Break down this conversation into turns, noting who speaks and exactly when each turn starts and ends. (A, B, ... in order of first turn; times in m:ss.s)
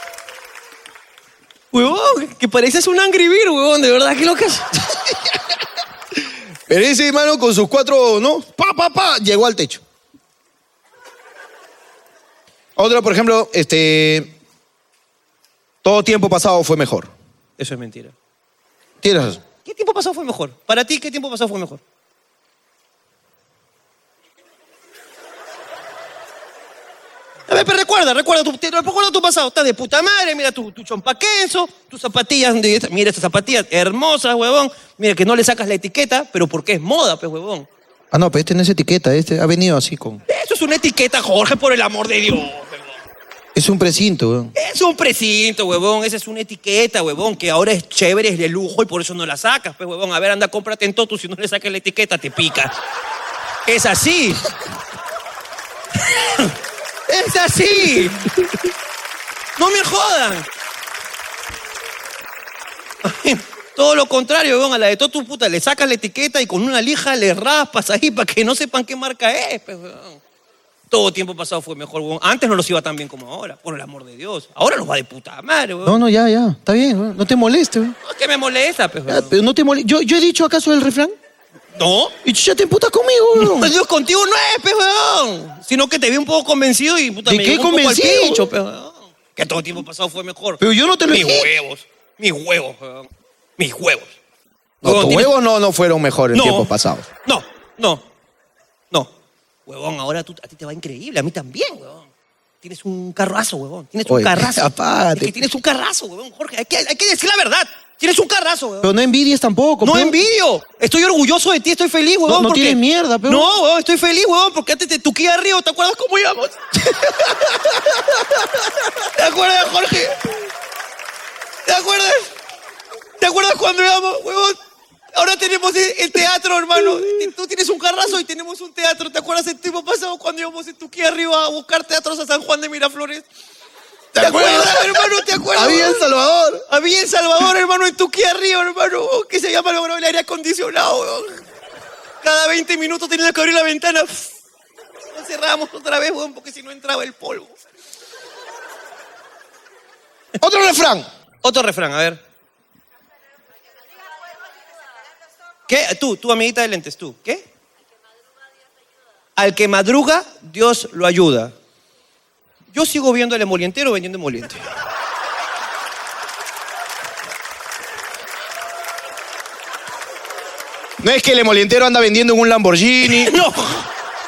0:01.7-0:04.7 A
0:06.7-0:09.8 B
0:12.8-0:14.3 B
0:15.8-0:17.1 B
0:17.6-0:18.1 A
0:19.0-0:19.4 B
0:19.6-0:21.8 A
0:27.5-0:37.7 A
0:38.1-0:40.2 B
0:40.3-0:42.9 A
0:43.5-0:44.5 B
0:44.6-0:52.7 A
0:53.6-0:54.4 A
0:56.1-0:56.5 A
0:57.1-0:58.2 A
0:59.6-1:00.4 A
1:03.0-1:10.2 A
1:10.9-1:16.0 A
1:15.8-1:18.0 B
1:18.0-1:19.3 A
1:19.1-1:21.2 B
1:21.7-1:22.1 A
1:22.2-1:23.7 B
1:23.3-1:33.1 A
1:27.2-1:28.5 B
1:30.6-1:31.5 B
1:33.6-1:34.1 A
1:34.8-1:35.3 A
1:34.8-1:37.1 B
1:36.3-1:36.7 A
1:37.2-1:38.0 A
1:39.7-1:42.1 A
1:42.6-1:48.9 A
1:44.1-1:45.4 B
1:48.8-1:50.2 B
1:49.8-1:57.5 A
1:52.3-1:53.5 B
1:59.1-2:00.2 A
2:01.6-2:02.3 A
2:03.2-2:04.6 A
2:05.1-2:13.2 A
2:14.1-2:16.6 B
2:14.2-2:16.0 A
2:16.7-2:21.3 A
2:22.2-2:24.3 A
2:25.1-2:27.5 A
2:30.4-2:31.1 B
2:31.4-2:32.2 A
2:35.7-2:37.4 A
2:39.4-2:41.5 A
2:42.7-2:44.6 A
2:51.0-2:53.4 B
2:53.0-2:53.9 A